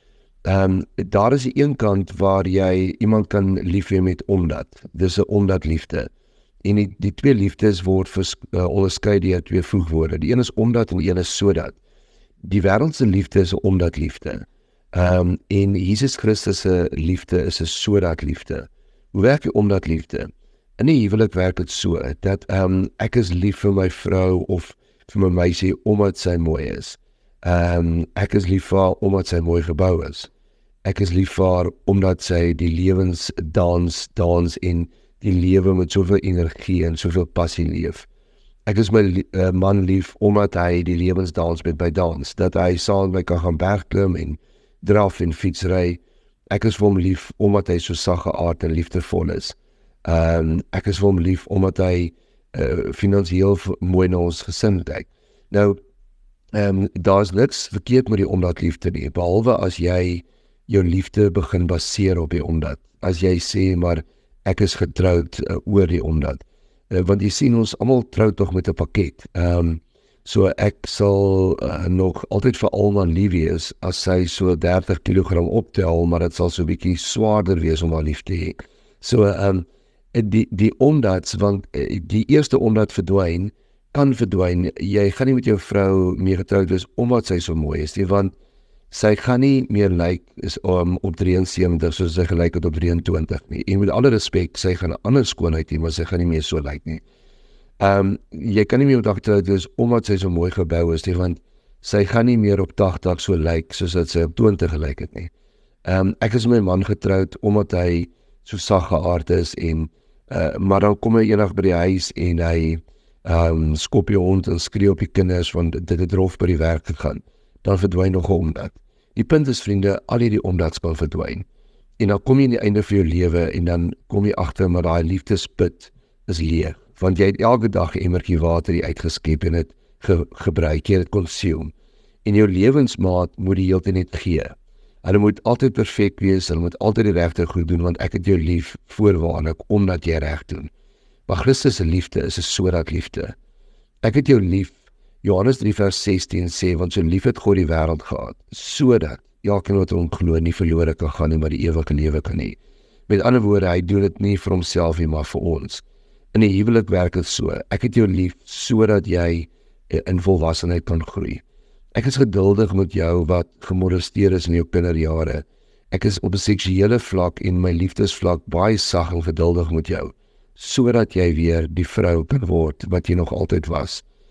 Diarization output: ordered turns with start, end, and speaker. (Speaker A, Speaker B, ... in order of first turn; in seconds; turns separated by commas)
Speaker A: 0.4-6.1, Speaker A: 6.6-11.8, Speaker A: 12.4-30.3, Speaker A: 30.8-38.1, Speaker A: 38.6-46.0, Speaker A: 46.5-55.8, Speaker A: 56.5-88.3, Speaker A: 88.9-97.0, Speaker A: 97.8-105.3, Speaker A: 105.8-121.5, Speaker A: 122.0-131.7, Speaker A: 132.2-140.7, Speaker A: 141.3-143.3, Speaker A: 144.0-152.6, Speaker A: 153.1-161.4, Speaker A: 161.9-174.0